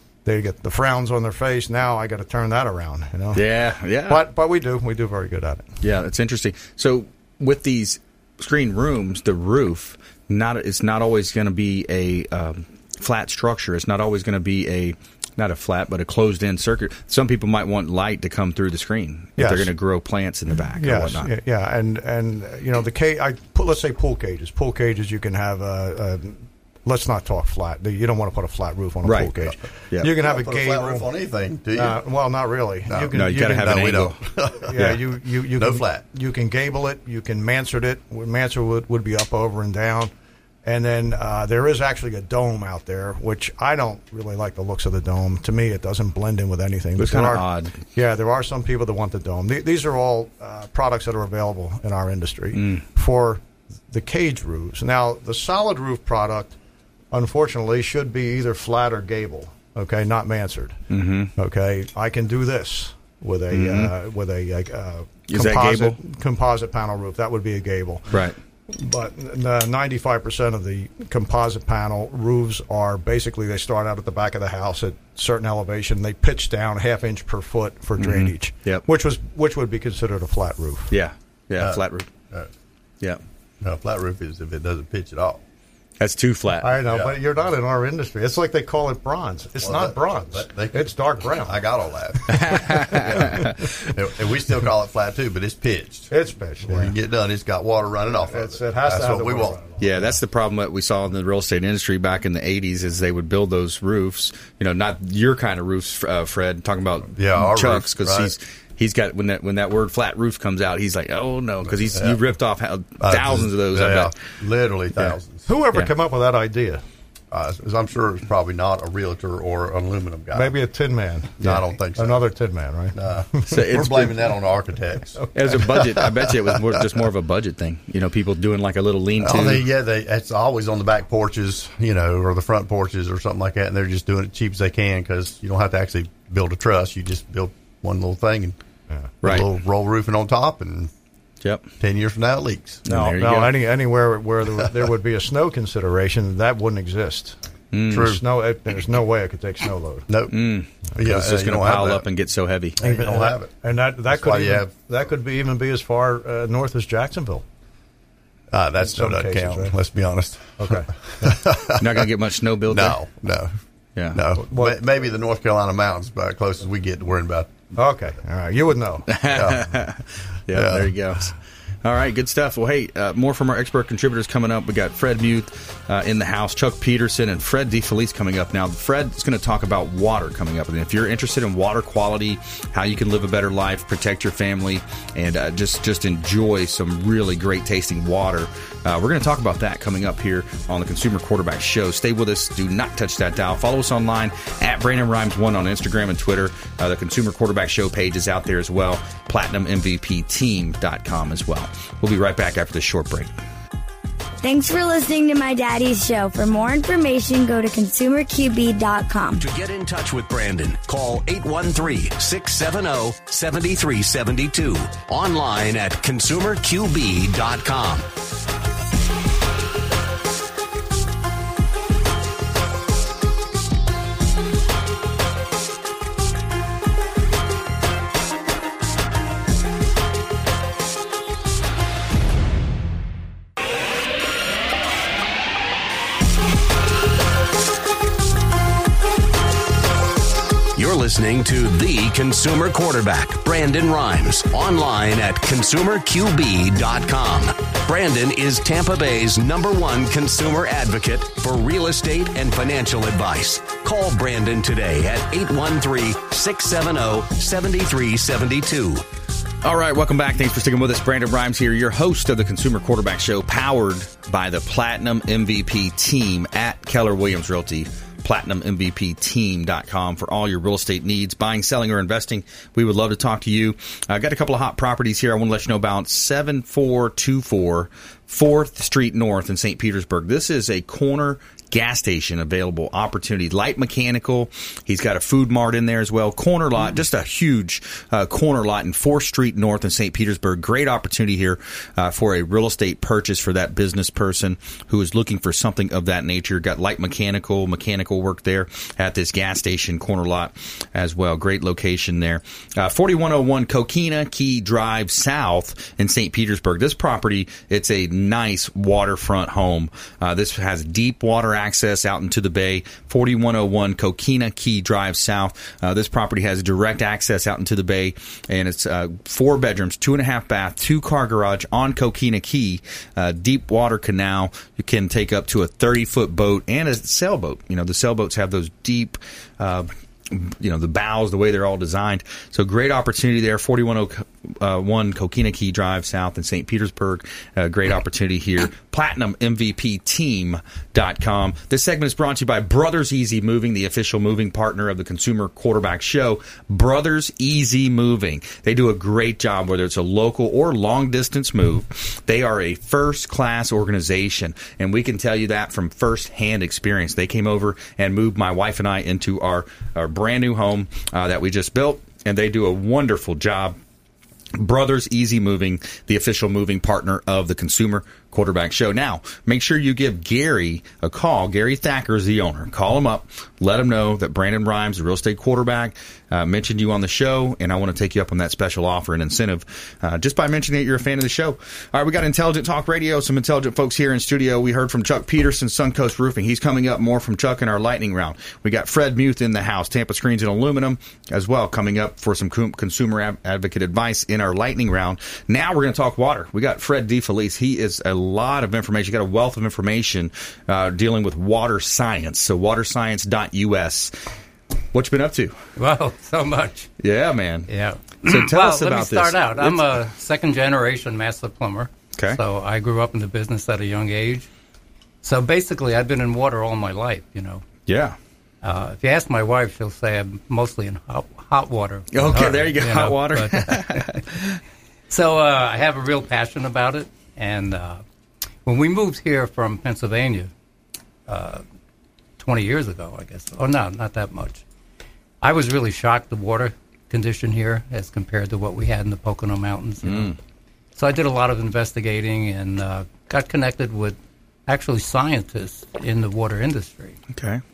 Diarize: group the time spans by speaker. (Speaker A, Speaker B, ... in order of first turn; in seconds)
Speaker A: 0.2-3.4, 4.1-5.7, 19.4-19.7, 20.7-31.1, 31.7-33.9, 34.6-40.1, 40.6-56.6, 57.1-60.8, 61.4-68.1, 68.7-80.9, 86.6-91.6, 96.1-97.0, 98.2-99.8, 115.5-116.8, 120.3-123.0, 142.9-147.4, 147.9-150.1, 152.8-157.4, 158.8-159.8, 160.6-161.3, 164.4-164.8, 167.8-169.1
Speaker B: 3.4-4.3, 5.8-21.3, 29.0-29.3, 33.1-34.2, 47.0-47.8, 52.6-52.8, 60.9-61.3, 63.5-63.9, 65.3-66.0, 68.1-68.4, 78.0-78.8, 80.9-82.1, 86.0-86.8, 92.3-93.5, 99.8-114.2, 123.5-124.3, 125.3-129.7, 139.2-139.5, 141.4-141.7, 142.9-143.6, 147.7-148.2, 150.3-152.8, 161.8-163.0, 164.0-164.2, 169.1-203.3, 259.6-363.8, 364.6-404.1, 404.9-405.6, 407.0-407.7, 408.2-409.9, 417.9-418.2, 422.1-424.6, 440.0-440.4, 447.3-447.6
Speaker C: 30.1-32.0, 32.9-34.8, 35.6-36.0, 81.6-82.5, 83.6-85.4, 86.9-87.2, 89.6-96.1, 96.6-99.6, 107.2-108.3, 111.7-112.2, 113.0-115.5, 117.3-120.5, 121.4-122.2, 123.0-126.8, 129.2-138.6, 139.2-140.9, 141.8-142.8, 147.9-148.2, 150.1-150.4, 150.9-152.1, 152.8-153.5, 154.1-154.7, 158.5-162.1, 162.7-163.5, 164.1-167.5, 169.3-169.7, 170.5-171.0
Speaker D: 204.4-209.4
Speaker E: 209.4-218.1, 240.8-259.0
Speaker F: 405.8-406.9, 407.7-414.5, 415.2-417.6, 418.6-424.2, 425.1-428.0, 428.6-430.5, 431.3-431.6, 432.4-434.6, 435.4-440.4, 441.0-447.2